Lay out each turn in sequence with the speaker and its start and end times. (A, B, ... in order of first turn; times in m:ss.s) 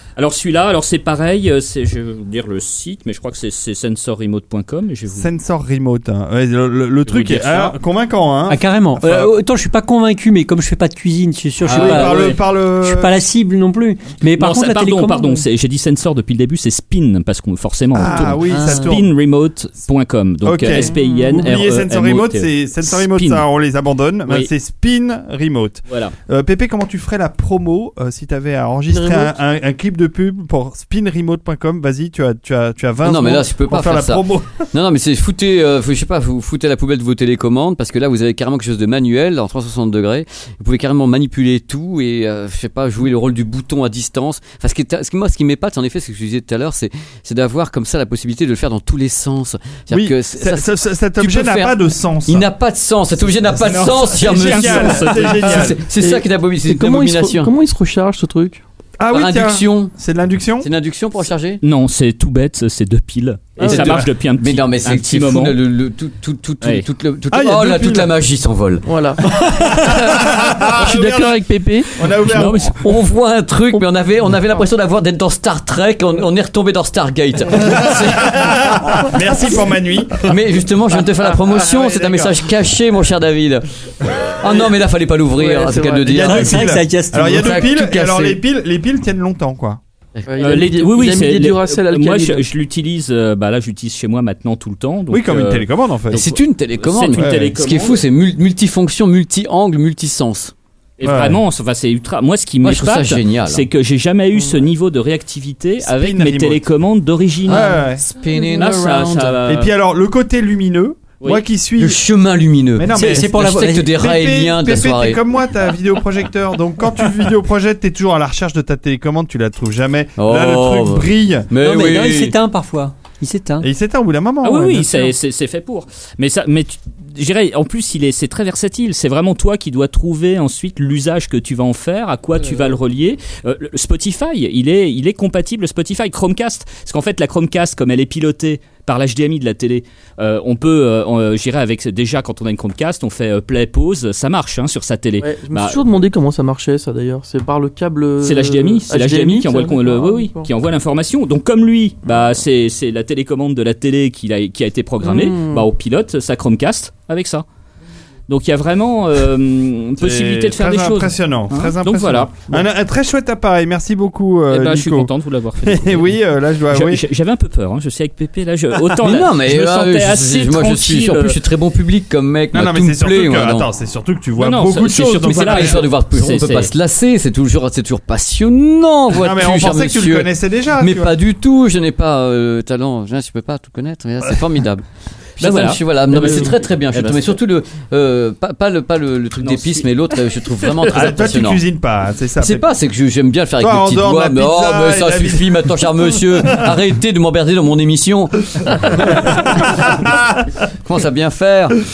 0:00.2-0:05.3 A
0:05.1-0:09.3 B
0:07.1-0:07.8 A
0:08.5-0:15.5 C
0:11.6-0:12.4 A
0:11.7-0:13.1 B
0:14.4-0:23.5 A
0:17.9-0:19.1 B
0:18.4-0:19.0 C
0:20.4-0:34.6 B
0:20.8-0:21.4 D
0:25.9-0:26.1 A
0:28.9-0:29.3 D
0:33.0-0:57.5 E
0:49.9-0:52.5 B
0:53.6-0:55.7 A
0:54.1-0:55.8 B
0:56.0-0:58.6 D
0:59.0-1:00.7 B
0:59.1-0:59.9 E
1:00.6-1:01.6 E
1:01.6-1:05.6 A
1:03.6-1:08.9 E
1:03.6-1:03.9 D
1:03.7-1:04.1 B
1:06.6-1:06.9 A
1:07.3-1:08.1 B
1:08.8-1:12.1 D
1:09.4-1:12.8 B
1:12.2-1:12.8 A
1:12.8-1:19.0 E
1:17.6-1:20.4 B
1:20.2-1:23.7 E
1:21.2-1:22.5 B
1:24.3-1:26.7 E
1:25.3-1:26.3 D
1:26.1-1:27.7 C
1:26.2-1:29.8 B
1:27.3-1:28.4 E
1:30.3-1:32.5 D
1:30.4-1:38.0 A
1:35.1-1:36.3 B
1:36.1-1:40.5 E
1:37.2-1:37.5 B
1:41.0-1:47.8 A
1:41.0-1:41.4 B
1:42.6-1:43.7 E
1:45.8-1:46.6 B
1:47.5-1:49.4 E
1:47.5-1:48.0 B
1:48.5-1:49.7 A
1:49.5-1:52.0 B
1:51.8-1:55.2 E
1:52.8-2:01.5 B
1:52.9-1:53.9 C
2:00.2-2:02.4 E
2:01.6-2:03.7 C
2:03.6-2:05.1 B
2:04.4-2:25.9 A
2:25.2-2:30.5 D
2:28.2-2:37.4 A
2:35.0-2:35.7 D
2:38.3-2:42.6 A
2:40.0-2:47.1 B
2:44.5-2:46.1 A
2:46.7-2:51.4 A
2:49.0-2:53.7 E
2:52.5-2:55.8 B
2:54.4-2:56.7 A
2:55.3-3:04.8 E
2:59.1-3:01.2 B
3:05.4-3:11.6 E
3:05.4-3:07.4 A
3:09.4-3:09.9 A
3:10.7-3:11.0 A
3:10.9-3:12.7 B
3:12.4-3:20.0 E
3:13.6-3:15.9 B
3:19.0-3:20.5 B
3:20.8-3:21.8 E